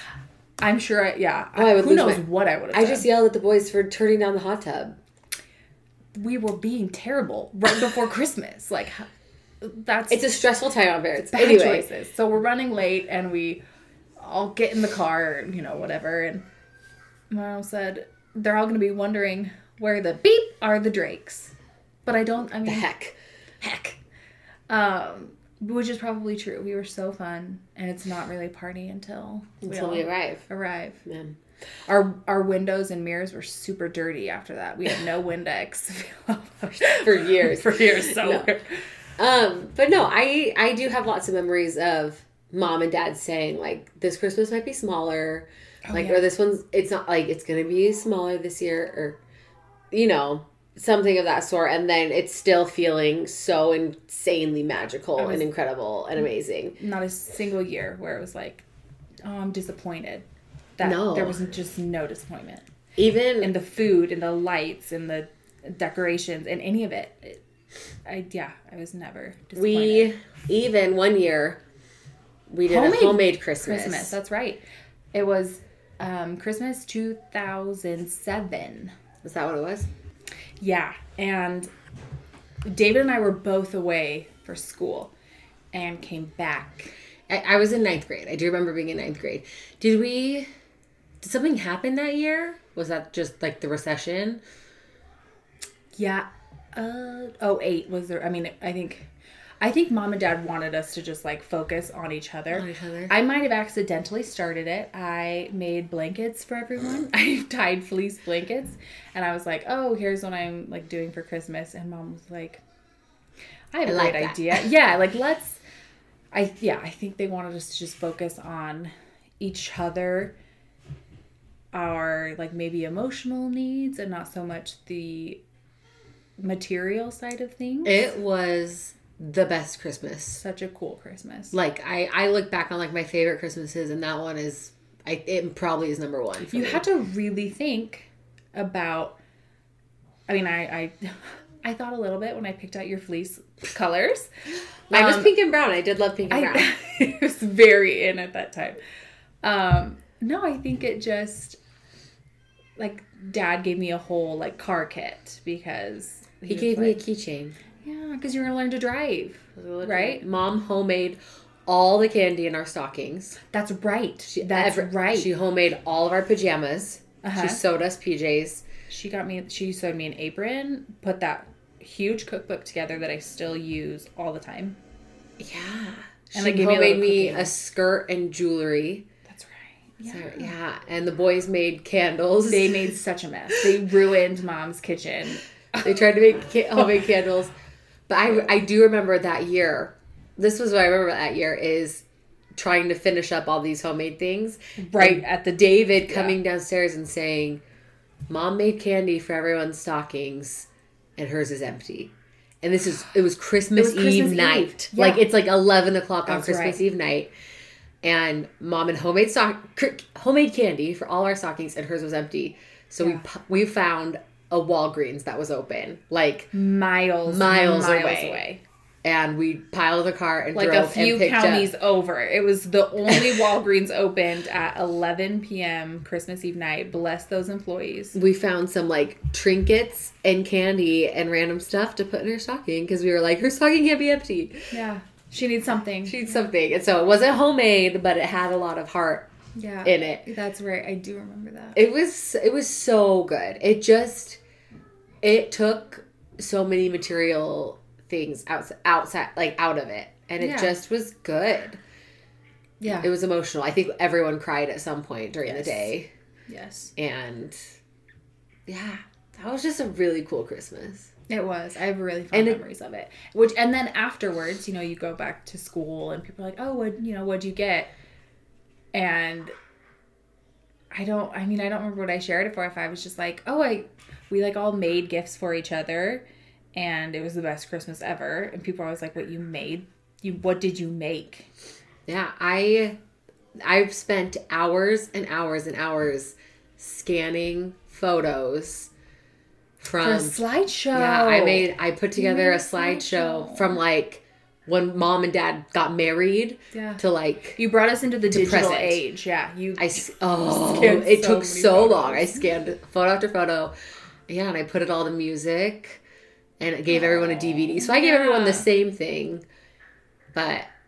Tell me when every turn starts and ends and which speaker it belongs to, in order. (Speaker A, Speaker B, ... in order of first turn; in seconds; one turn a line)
Speaker A: 0.6-3.1
Speaker B: 1.6-5.0
Speaker A: 6.1-9.1
Speaker A: 9.6-10.3
Speaker B: 10.1-11.9
Speaker A: 11.3-13.6
Speaker A: 14.2-16.4
Speaker A: 17.3-21.5
Speaker A: 22.0-22.9
Speaker B: 22.6-24.0
Speaker A: 24.7-31.0
Speaker B: 29.6-30.4
Speaker B: 31.0-31.4
Speaker A: 31.9-38.9
Speaker B: 36.8-38.5
Speaker B: 39.2-49.2
Speaker A: 45.9-46.3
Speaker B: 49.9-56.8
Speaker A: 55.2-55.5
Speaker A: 56.8-58.6
Speaker A: 59.2-60.2
Speaker A: 60.8-62.6
Speaker B: 60.8-61.5
Speaker B: 63.0-63.5
Speaker A: 63.4-67.4
Speaker A: 68.0-70.1
Speaker B: 69.5-71.6
Speaker B: 72.5-74.2
Speaker A: 72.7-74.6
Speaker A: 75.1-78.9
Speaker B: 79.2-79.9
Speaker A: 80.6-81.7
Speaker A: 82.6-85.1
Speaker A: 85.7-86.9
Speaker B: 87.3-90.5
Speaker B: 91.2-94.4
Speaker A: 95.9-99.1
Speaker A: 99.6-112.6
Speaker B: 102.5-103.1
Speaker A: 113.7-115.6
Speaker B: 113.8-114.7
Speaker A: 116.3-120.3
Speaker A: 121.7-125.4
Speaker A: 126.4-128.1
Speaker B: 127.8-130.4
Speaker A: 130.4-131.6
Speaker B: 131.5-136.8
Speaker A: 136.4-139.2
Speaker A: 140.3-144.3
Speaker A: 144.9-145.3
Speaker B: 144.9-146.7
Speaker A: 146.3-148.8
Speaker A: 149.4-151.6
Speaker A: 152.8-157.0
Speaker B: 156.4-157.6
Speaker A: 157.8-160.2
Speaker B: 159.6-163.4
Speaker A: 163.4-165.3
Speaker B: 164.3-168.6
Speaker A: 167.2-167.6
Speaker A: 168.9-174.8
Speaker B: 175.4-179.1
Speaker A: 176.3-177.5
Speaker A: 179.3-180.5
Speaker B: 180.1-182.9
Speaker A: 182.5-185.9
Speaker B: 185.8-187.5
Speaker B: 188.1-192.0
Speaker B: 192.6-197.6
Speaker A: 194.8-196.4
Speaker B: 198.3-207.3
Speaker A: 203.8-205.3
Speaker A: 206.2-206.8
Speaker B: 208.0-216.5
Speaker A: 216.5-218.6
Speaker B: 217.2-218.4
Speaker B: 219.0-221.7
Speaker A: 220.5-228.2
Speaker B: 223.1-223.5
Speaker B: 228.1-234.7
Speaker A: 234.7-236.3
Speaker B: 236.0-239.3
Speaker A: 239.5-241.8
Speaker B: 239.8-240.2
Speaker B: 241.7-244.4
Speaker B: 245.2-251.8
Speaker A: 250.4-250.7
Speaker A: 252.8-253.1
Speaker B: 252.9-256.1
Speaker A: 255.5-255.9
Speaker A: 256.5-256.9
Speaker B: 256.9-257.6
Speaker B: 258.7-261.1
Speaker A: 261.3-267.9
Speaker B: 262.3-262.6
Speaker A: 268.9-269.5
Speaker A: 270.9-281.5
Speaker B: 282.1-283.0
Speaker B: 283.6-288.9
Speaker B: 289.8-297.6
Speaker A: 290.0-293.8
Speaker A: 296.7-297.0
Speaker A: 297.6-302.5
Speaker B: 298.3-299.0
Speaker B: 299.8-303.7
Speaker B: 304.3-306.0
Speaker B: 306.6-309.4
Speaker A: 306.9-308.7
Speaker B: 310.3-310.7